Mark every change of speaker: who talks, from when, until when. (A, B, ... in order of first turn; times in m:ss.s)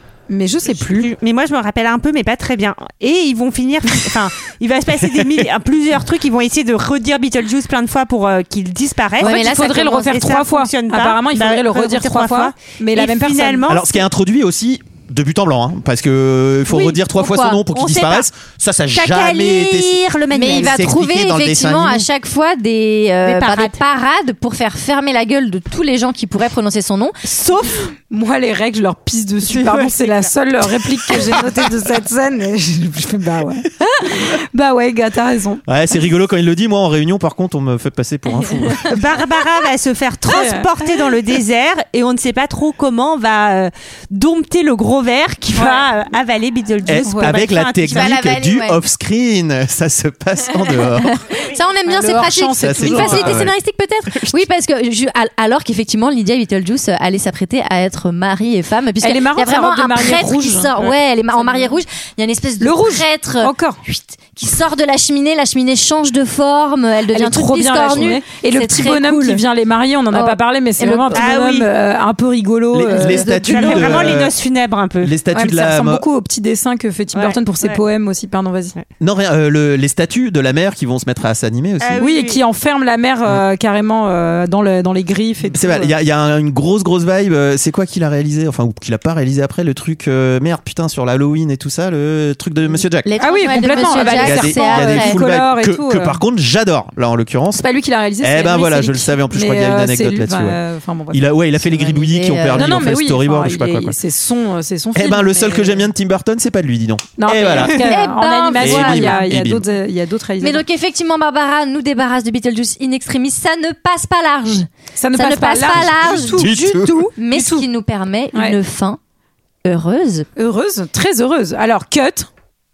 0:00.3-0:01.1 A
0:00.8-0:13.9 B
0:05.0-0:05.5 C
0:09.2-0:13.9 A
0:09.2-0:10.2 D
0:13.7-0:22.1 C
0:16.7-0:17.6 D
0:17.7-0:18.3 B
0:18.9-0:20.8 B
0:20.3-0:27.2 D
0:23.2-0:23.8 B
0:27.2-0:27.9 B
0:28.1-0:35.6 A
0:29.5-0:30.3 B
0:35.7-0:39.0 C
0:38.9-0:48.2 B
0:40.3-0:40.7 A
0:45.6-0:45.8 A
0:46.9-0:51.2 C
0:47.0-0:47.4 A
0:47.9-0:48.8 D
0:51.0-1:09.4 D
0:51.9-0:53.4 A
0:52.6-0:53.5 C
0:54.1-0:54.4 C
0:59.0-1:00.7 A
1:02.6-1:03.8 A
1:07.1-1:14.2 A
1:10.1-1:11.3 D
1:11.1-1:11.7 B
1:12.7-1:14.4 C
1:13.3-1:15.1 B
1:15.0-1:16.0 C
1:15.3-1:18.8 A
1:17.1-1:17.8 B
1:19.0-1:22.0 C
1:21.8-1:22.4 B
1:22.0-1:25.9 A
1:25.5-1:37.7 C
1:33.0-1:35.2 D
1:33.2-1:36.2 A
1:37.6-1:41.4 A
1:38.2-1:40.6 C
1:41.1-1:44.0 C
1:41.6-1:42.9 D
1:42.5-1:45.9 A
1:44.9-1:48.0 C
1:47.2-1:50.6 A
1:47.7-1:49.3 D
1:48.6-1:49.6 C
1:50.4-1:59.0 D
1:55.0-1:57.7 A
1:55.7-1:56.9 C
1:59.6-2:00.3 D
2:00.4-2:02.3 A